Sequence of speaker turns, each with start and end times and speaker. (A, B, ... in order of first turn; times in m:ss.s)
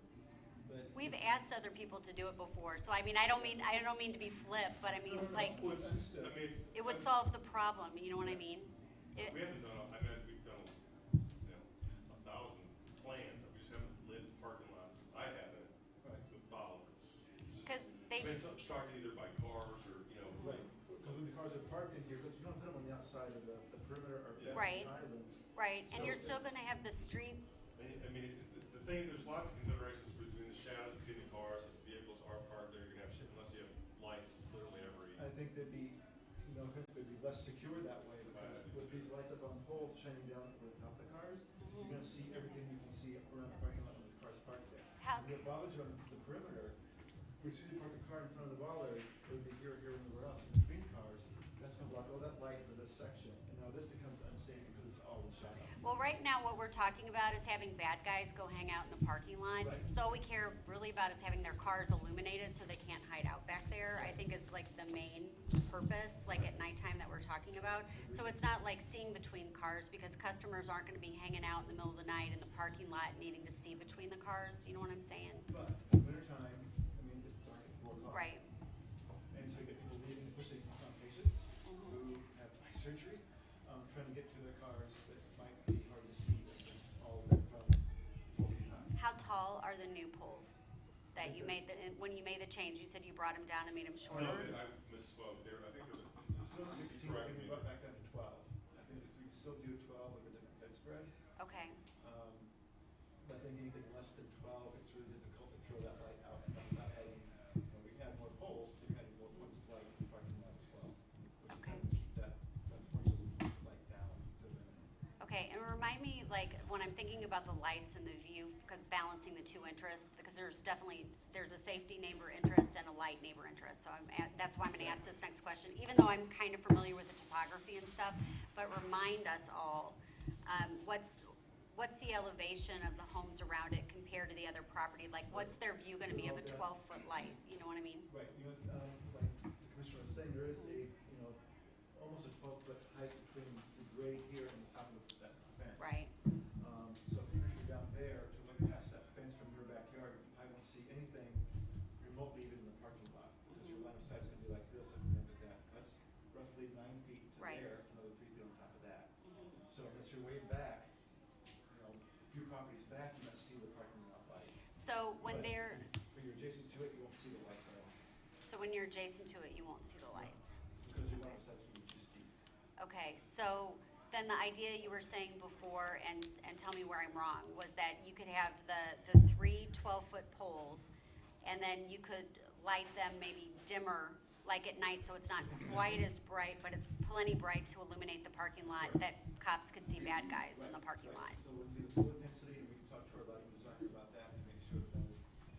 0:00.6-0:01.4 A
0:00.9-0:05.7 B
0:03.3-0:03.8 A
0:05.0-0:06.4 A
0:05.1-0:07.1 C
0:06.7-0:09.4 B
0:08.2-0:08.5 A
0:09.2-0:10.7 C
0:09.2-0:09.5 A
0:11.4-0:15.7 C
0:16.0-0:16.2 A
0:16.2-0:20.7 C
0:17.6-0:18.4 B
0:20.3-0:20.6 B
0:20.4-0:26.4 A
0:24.4-0:24.8 C
0:24.5-0:25.0 B
0:25.5-0:27.4 B
0:27.8-0:35.2 C
0:35.1-0:46.8 A
0:38.3-0:39.1 C
0:41.6-0:42.0 B
0:45.0-0:45.3 B
0:47.4-0:56.2 A
0:55.7-1:15.5 B
0:59.6-0:59.9 A
1:03.9-1:04.2 A
1:06.3-1:06.6 A
1:07.9-1:08.4 A
1:15.5-1:18.4 A
1:18.0-1:18.4 B
1:19.3-1:28.9 A
1:21.6-1:22.0 B
1:29.0-1:30.6 B
1:31.1-1:34.5 B
1:31.2-1:31.6 A
1:34.1-1:34.6 A
1:34.1-1:37.7 C
1:36.4-1:41.1 A
1:41.4-1:41.8 B
1:42.0-1:42.5 A
1:43.2-1:54.9 A
1:51.5-1:51.8 B
1:55.2-2:18.1 B
2:04.7-2:05.1 A
2:15.3-2:16.7 A
2:18.1-2:39.1 A
2:25.8-2:26.1 B
2:33.5-2:33.9 B
2:37.4-2:37.6 B
2:39.2-2:39.6 B
2:39.6-2:40.9 A
2:41.7-2:44.7 A
2:44.7-2:45.8 B
2:45.2-2:47.9 A
2:48.4-2:50.6 B
2:50.1-2:52.3 A
2:52.8-3:00.9 B
3:01.4-3:11.4 B
3:05.5-3:06.0 A
3:08.7-3:09.0 A
3:09.9-3:15.2 A